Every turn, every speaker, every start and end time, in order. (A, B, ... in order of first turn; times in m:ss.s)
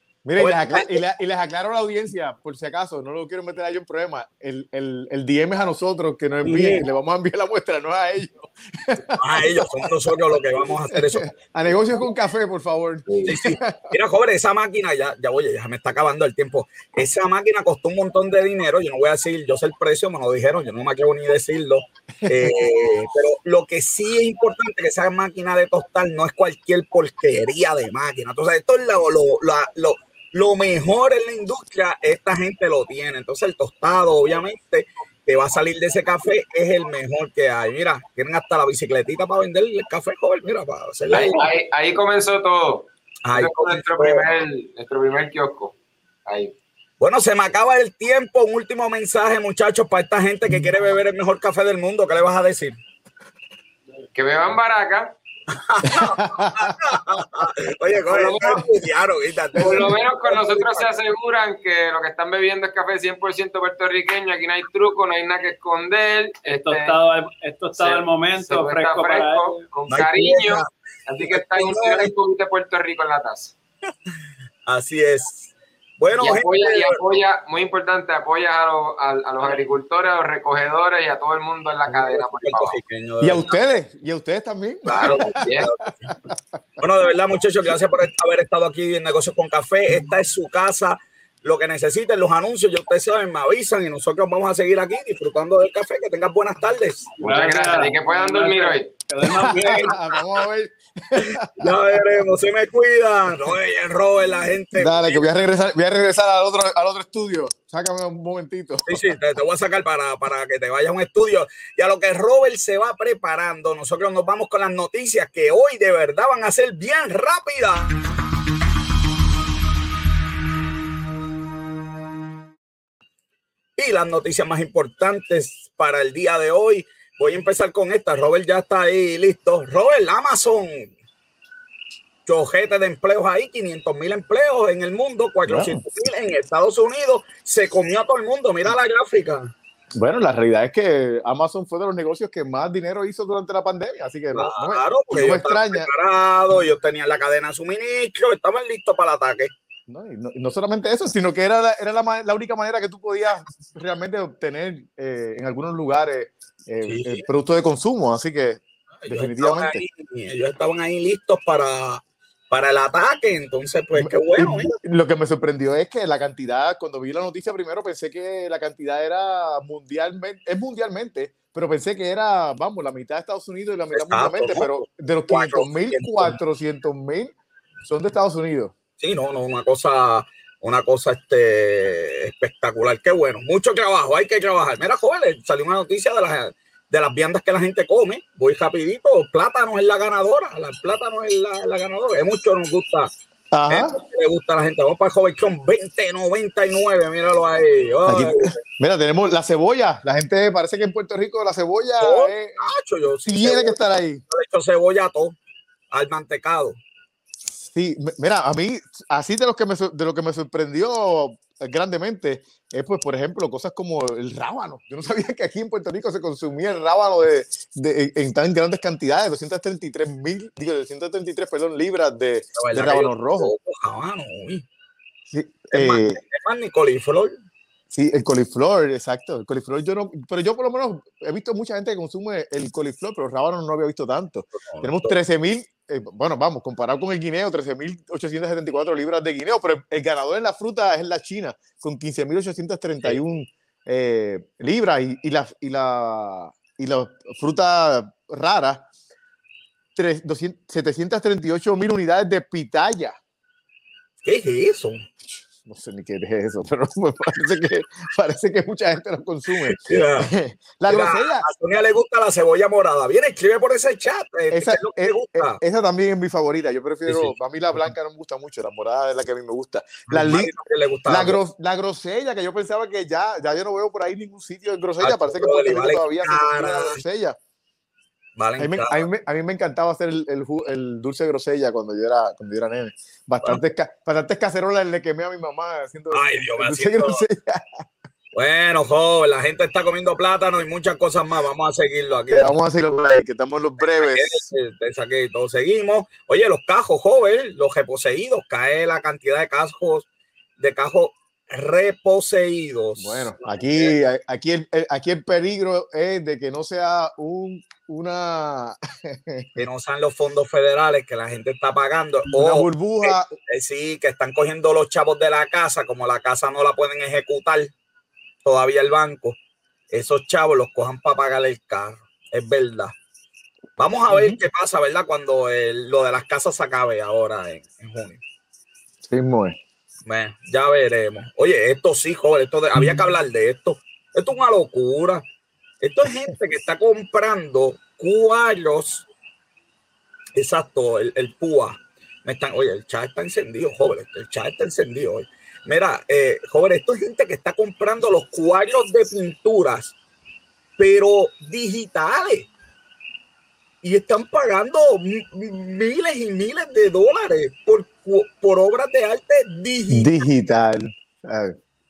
0:00.2-0:09.9 A
0:00.4-0:01.0 B
0:06.4-0:06.8 B
0:09.2-0:11.3 B
0:10.9-0:13.9 A
0:13.1-0:13.3 C
0:13.2-0:41.4 B
0:22.2-0:22.7 A
0:41.1-0:46.5 C
0:43.2-0:44.3 B
0:47.0-0:52.8 B
0:54.1-0:55.1 C
0:55.5-1:00.9 B
0:55.8-0:56.7 A
0:58.1-0:58.7 C
0:59.6-1:06.9 C
1:06.5-1:09.5 D
1:07.7-1:13.5 C
1:09.9-1:10.7 B
1:11.2-1:12.1 B
1:14.6-1:17.0 B
1:16.2-1:22.8 C
1:21.9-1:23.5 B
1:23.2-1:26.4 A
1:24.9-1:25.7 C
1:25.0-1:26.1 B
1:26.8-1:37.1 B
1:37.2-1:40.0 D
1:37.2-1:38.9 C
1:39.2-1:42.0 A
1:39.5-1:39.9 B
1:41.3-1:45.2 B
1:44.8-1:49.0 A
1:48.9-1:58.0 B
2:03.8-2:10.9 B
2:12.2-2:19.5 B
2:15.5-2:15.8 A
2:20.0-2:25.9 A
2:24.3-2:29.5 B
2:29.9-2:39.8 A
2:36.8-2:37.3 B
2:39.0-2:44.7 B
2:44.0-2:57.3 A
2:53.9-2:56.4 B
2:57.8-2:58.7 A
2:59.0-3:13.1 B
3:13.5-3:14.0 A
3:13.7-3:18.6 B
3:18.0-3:24.2 A
3:22.0-3:23.8 B
3:24.3-3:25.4 B
3:25.9-3:26.8 B
3:27.6-3:43.5 A
3:42.6-3:44.6 B
3:45.3-3:46.2 A
3:45.7-3:47.4 B
3:47.9-4:08.8 A
3:54.6-3:55.2 B
4:10.0-4:13.2 A
4:14.2-4:15.1 B
4:15.5-4:21.4 A
4:19.7-4:20.3 B
4:20.9-4:25.6 B
4:24.5-4:30.5 A
4:27.0-4:27.3 B
4:30.1-4:31.4 B
4:31.1-4:37.4 A
4:35.0-4:37.0 B
4:38.4-4:39.0 B
4:38.6-4:47.8 A
4:46.1-4:47.2 B
4:48.3-4:52.5 B
4:52.3-4:54.4 A
4:53.8-5:00.1 B
5:00.6-5:03.9 B
5:03.0-5:09.5 A
5:09.6-5:17.7 B
5:12.3-5:13.3 A
5:18.4-5:19.4 B
5:19.9-5:23.0 B
5:23.8-5:28.2 B
5:24.1-5:24.4 A
5:29.1-5:29.6 A
5:30.0-5:35.2 B
5:35.8-5:39.1 B
5:40.3-5:50.0 B
5:50.8-5:52.5 B
5:53.8-6:00.1 B
5:59.9-6:01.6 A